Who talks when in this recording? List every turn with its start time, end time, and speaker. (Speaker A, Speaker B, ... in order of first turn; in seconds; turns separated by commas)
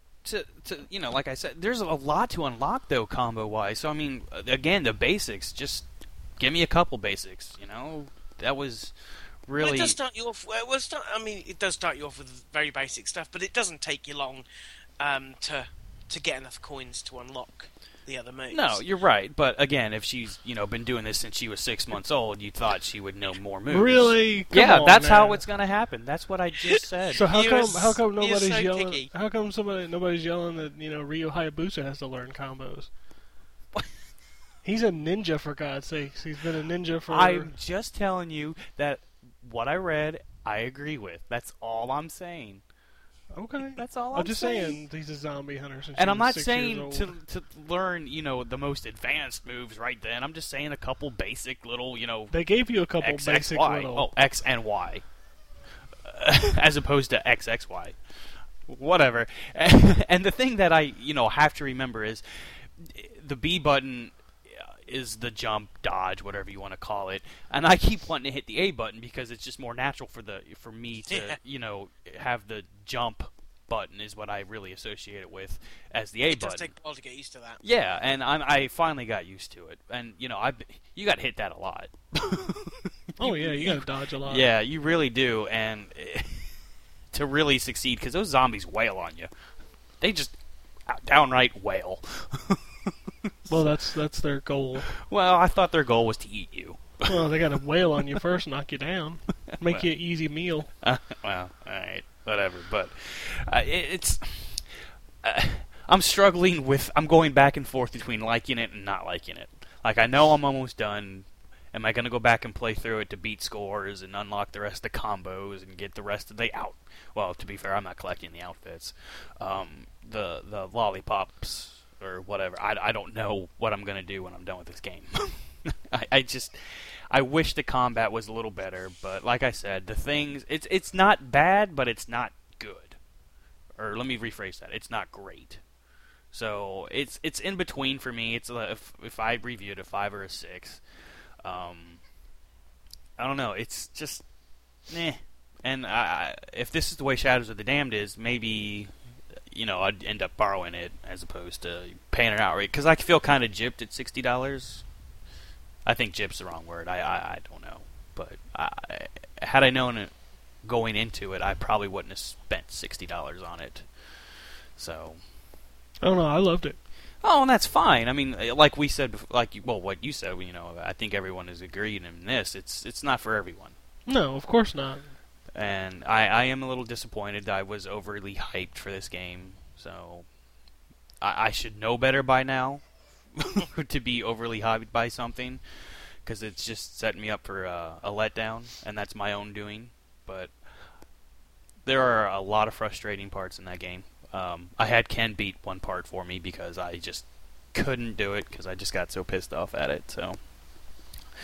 Speaker A: 0.2-10.0, Speaker B: 9.6-14.4, Speaker B: 15.0-18.8, Speaker A: 18.5-27.3, Speaker C: 23.7-25.4, Speaker B: 26.7-29.1, Speaker C: 27.1-32.9, Speaker C: 34.6-37.5, Speaker A: 37.1-42.6, Speaker C: 43.3-47.1, Speaker A: 43.7-44.8, Speaker A: 45.9-55.1, Speaker C: 52.3-54.1, Speaker A: 56.0-76.7, Speaker B: 71.1-71.4, Speaker B: 76.3-77.6, Speaker A: 77.6-86.6, Speaker C: 83.2-84.5, Speaker A: 87.1-89.3, Speaker A: 90.0-93.8, Speaker C: 93.5-94.9, Speaker A: 95.0-97.1, Speaker C: 97.0-100.7, Speaker A: 99.6-100.0, Speaker A: 100.8-133.0, Speaker A: 133.7-135.6, Speaker A: 136.3-142.0, Speaker A: 143.2-144.3, Speaker A: 144.8-154.9, Speaker A: 155.8-165.2, Speaker C: 166.0-166.8, Speaker A: 167.2-173.8, Speaker C: 174.1-175.1, Speaker A: 175.5-180.3, Speaker A: 181.2-191.1, Speaker A: 191.8-200.5